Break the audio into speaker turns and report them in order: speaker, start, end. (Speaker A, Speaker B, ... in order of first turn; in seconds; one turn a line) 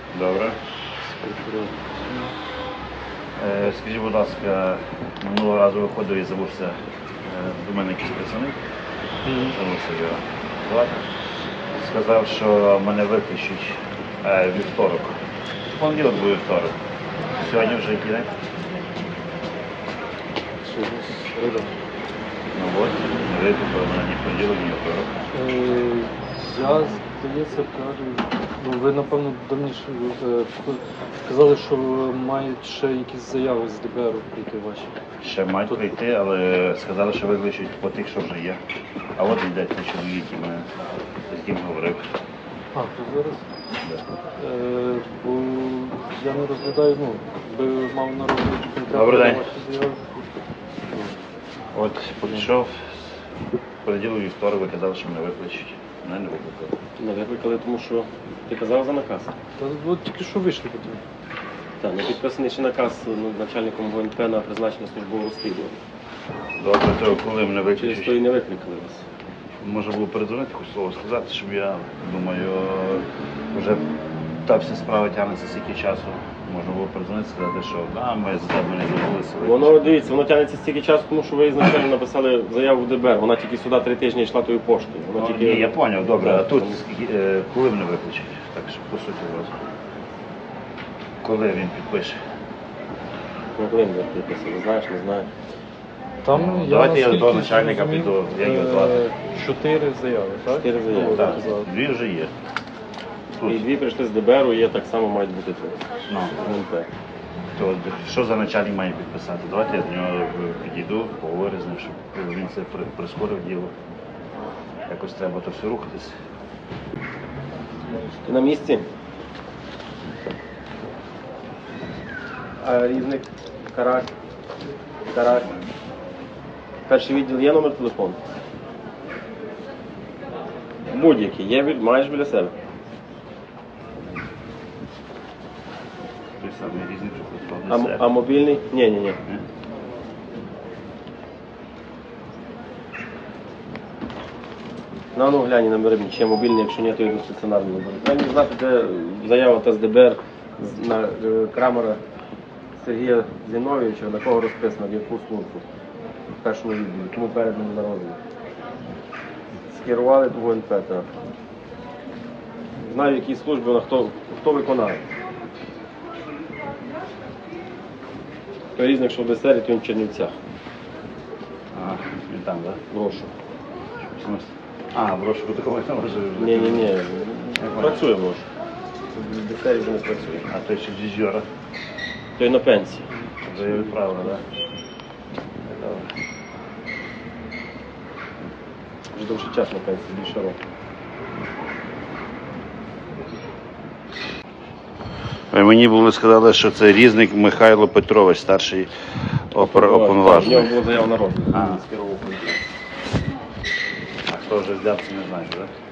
Speaker A: 0.1-0.6
Speaker B: 1.0-2.3
Speaker A: 3.4-8.6
Speaker B: 9.3-9.6
Speaker A: 9.3-11.1
Speaker A: 11.8-15.2
Speaker A: 15.7-16.8
Speaker A: 17.4-18.3
Speaker B: 20.6-21.7
Speaker A: 22.5-25.1
Speaker B: 25.3-34.9
Speaker A: 35.2-38.6
Speaker A: 39.2-40.7
Speaker A: 41.3-42.0
Speaker B: 42.7-43.5
Speaker B: 44.4-50.2
Speaker A: 48.9-49.5
Speaker A: 51.7-52.9
Speaker A: 53.8-56.7
Speaker C: 57.0-59.3
Speaker B: 59.6-61.0
Speaker C: 61.8-65.8
Speaker A: 66.6-68.2
Speaker C: 67.8-69.0
Speaker A: 69.6-73.9
Speaker A: 74.4-79.8
Speaker C: 79.4-86.8
Speaker A: 85.2-89.5
Speaker A: 91.2-92.2
Speaker C: 93.6-95.3
Speaker B: 96.2-101.7
Speaker A: 96.3-99.1
Speaker C: 100.5-101.4
Speaker A: 101.0-102.3
Speaker A: 103.4-103.6
Speaker C: 103.4-105.8
Speaker A: 106.1-106.4
Speaker C: 106.4-106.9
Speaker A: 107.6-113.7
Speaker A: 114.9-116.1
Speaker C: 118.2-118.9
Speaker C: 122.6-124.1
Speaker C: 125.1-125.5
Speaker C: 126.9-128.2
Speaker C: 130.9-132.5
Speaker A: 136.4-138.0
Speaker C: 137.7-139.2
Speaker C: 145.1-152.0
Speaker C: 152.8-155.6
Speaker C: 156.4-158.2
Speaker C: 159.7-161.1
Speaker C: 162.8-165.0
Speaker C: 168.8-170.3
Speaker A: 171.7-172.8
Speaker C: 172.9-173.3
Speaker A: 174.0-176.9
Speaker C: 176.4-178.5
Speaker A: 177.6-178.0
Speaker C: 179.1-180.5
Speaker A: 180.5-181.4
Speaker C: 182.4-183.1
Speaker B: 183.2-183.9
Speaker A: 183.5-184.4
Speaker A: 185.7-186.1
Speaker C: 189.1-190.6
Speaker A: 195.5-198.9
Speaker A: 199.5-200.8
Speaker C: 199.6-202.6
Speaker A: 201.5-201.8
Speaker A: 204.3-205.7